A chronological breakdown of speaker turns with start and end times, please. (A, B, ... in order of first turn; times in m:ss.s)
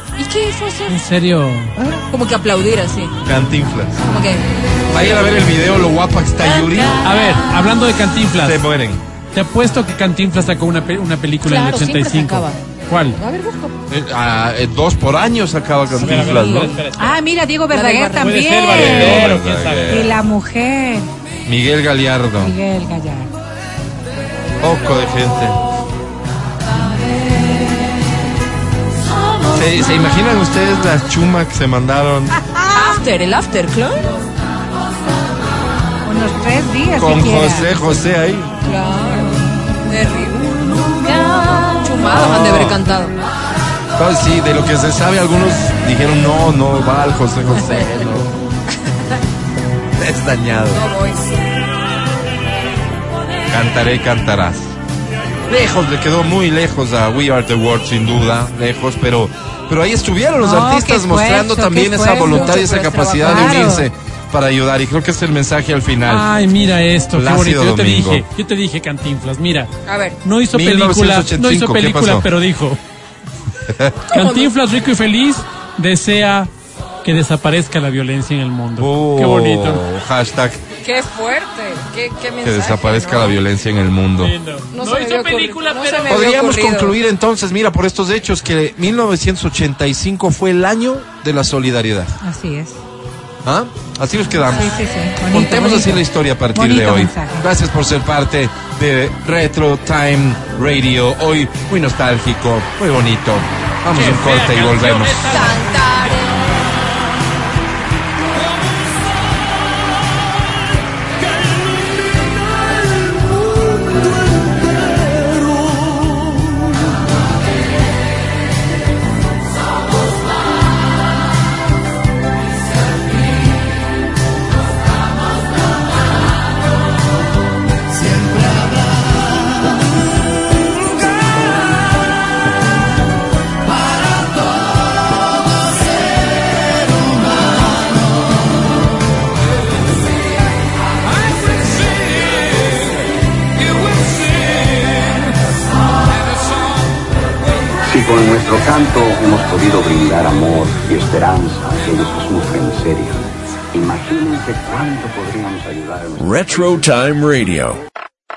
0:00.2-0:01.0 A
0:00.9-0:01.7 B
0:01.8-0:02.0 C
0:02.1-0:03.2 A
0:03.2-0:04.0 C
0:04.0-0:05.6 A
0:04.9-0:07.0 C
0:06.4-0:07.4 A
0:07.0-0:08.6 B
0:08.4-0:09.0 C
0:09.3-0:13.2 B
0:11.4-0:12.6 A
0:13.1-0:13.8 A
0:13.9-0:16.8 C
0:16.0-0:16.8 A
0:16.0-0:17.2 B
0:17.0-0:19.4 D
0:17.7-0:18.6 A
0:18.2-0:20.1 B
0:18.7-0:20.2 C
0:19.9-0:21.1 D
0:21.4-0:22.6 C
0:22.4-0:23.3 D
0:24.6-0:25.6 C
0:29.5-0:32.4 C
0:32.4-0:33.0 D
0:32.7-0:34.1 A
0:36.0-0:37.8 D
0:36.9-0:38.5 C
0:38.6-0:43.2 A
0:41.0-0:41.9 D
0:42.1-0:42.8 C
0:44.0-0:48.3 C
0:47.6-0:48.1 A
0:50.0-0:50.8 C
0:50.7-0:51.6 A
0:53.5-0:54.8 C
0:55.5-1:06.3 C
1:00.4-1:03.9 D
1:02.2-1:03.8 A
1:06.1-1:09.7 B
1:07.1-1:08.2 C
1:09.8-1:10.2 A
1:10.2-1:12.8 B
1:10.5-1:12.3 C
1:13.7-1:14.0 C
1:14.1-1:16.5 B
1:14.1-1:14.5 A
1:17.0-1:19.8 B
1:18.8-1:20.6 C
1:20.8-1:23.4 A
1:22.4-1:24.4 C
1:24.2-1:26.3 B
1:24.7-1:26.9 A
1:26.1-1:32.1 C
1:32.2-1:32.8 D
1:33.4-1:45.4 C
1:34.4-1:37.5 D
1:43.9-1:46.2 B
1:45.2-1:46.7 A
2:27.8-2:37.8 E